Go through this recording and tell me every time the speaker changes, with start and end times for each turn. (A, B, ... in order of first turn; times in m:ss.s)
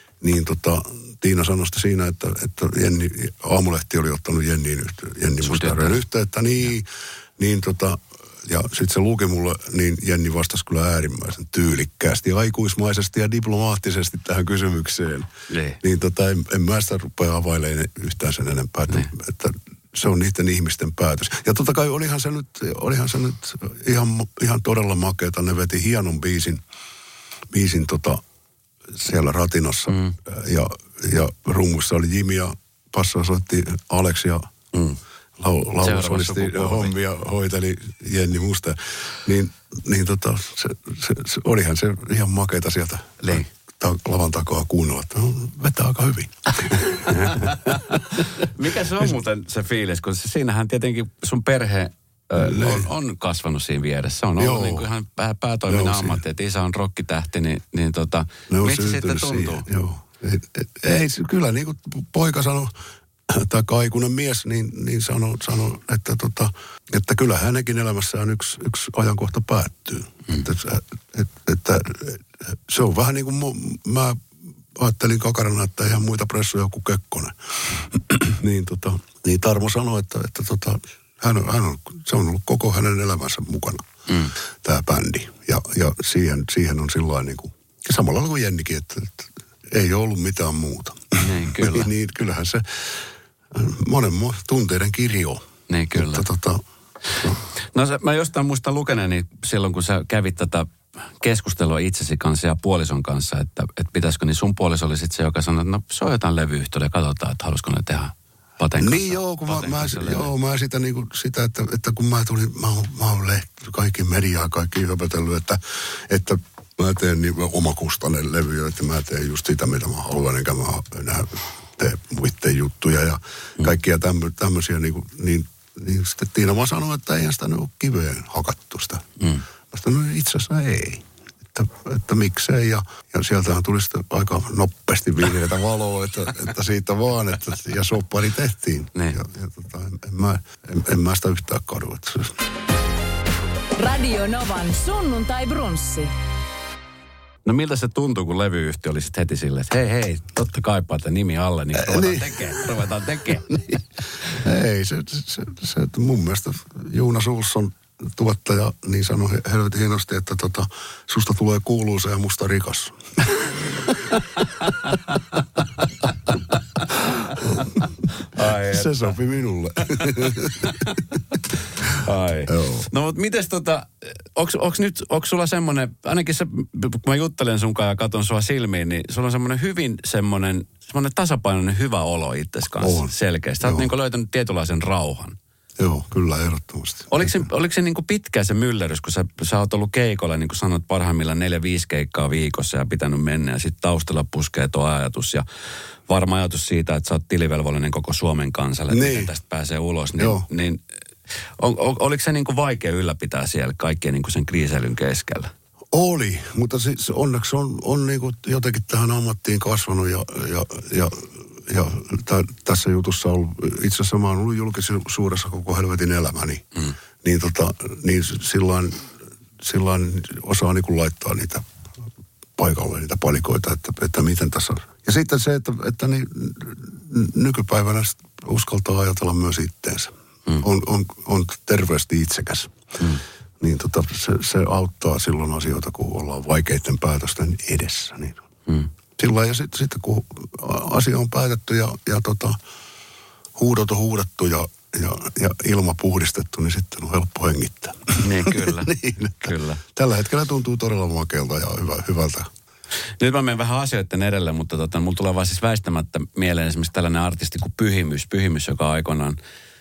0:00.2-0:15.3 A
0:05.4-0:06.0 B
0:15.5-0:15.8 B
0:15.8-0:26.6 A
0:27.5-0:28.2 A
0:28.9-0:34.5 A
0:29.9-0:30.2 B
0:34.7-0:35.0 B
0:35.4-0:48.2 A
0:35.8-0:37.0 B
0:43.2-0:43.5 B
0:47.0-0:59.6 B
0:52.4-0:52.9 A
0:54.4-0:54.9 A
0:55.7-0:56.2 A
0:58.5-1:02.7 A
1:03.3-1:14.2 A
1:14.8-1:23.8 A
1:24.1-1:24.4 B
1:24.6-1:36.6 A
1:31.2-1:31.9 B
1:35.7-1:36.3 B
1:37.7-1:50.3 B
1:48.8-2:09.1 A
2:09.2-2:09.4 B
2:09.7-2:22.4 A
2:18.9-2:19.2 B
2:23.8-2:26.1 C
2:27.4-2:33.8 B
2:31.7-2:32.7 A
2:33.3-2:43.5 A
2:44.4-2:49.1 B
2:47.4-2:47.9 A
2:48.6-2:51.2 A
2:49.8-2:51.0 B
2:51.8-3:05.4 B
2:52.5-2:52.9 A
3:02.8-3:03.9 A
3:05.8-3:07.5 A
3:07.1-3:15.4 B
3:16.1-3:20.8 B
3:18.9-3:19.3 A
3:20.2-3:20.5 A
3:21.6-3:25.5 B
3:25.9-3:36.7 A
3:37.2-3:39.1 A
3:39.6-3:41.6 A
3:42.6-3:52.7 A
3:53.6-3:58.4 A
3:59.2-4:02.6 A
4:03.6-4:12.5 A
4:08.2-4:09.8 B
4:13.2-4:19.4 B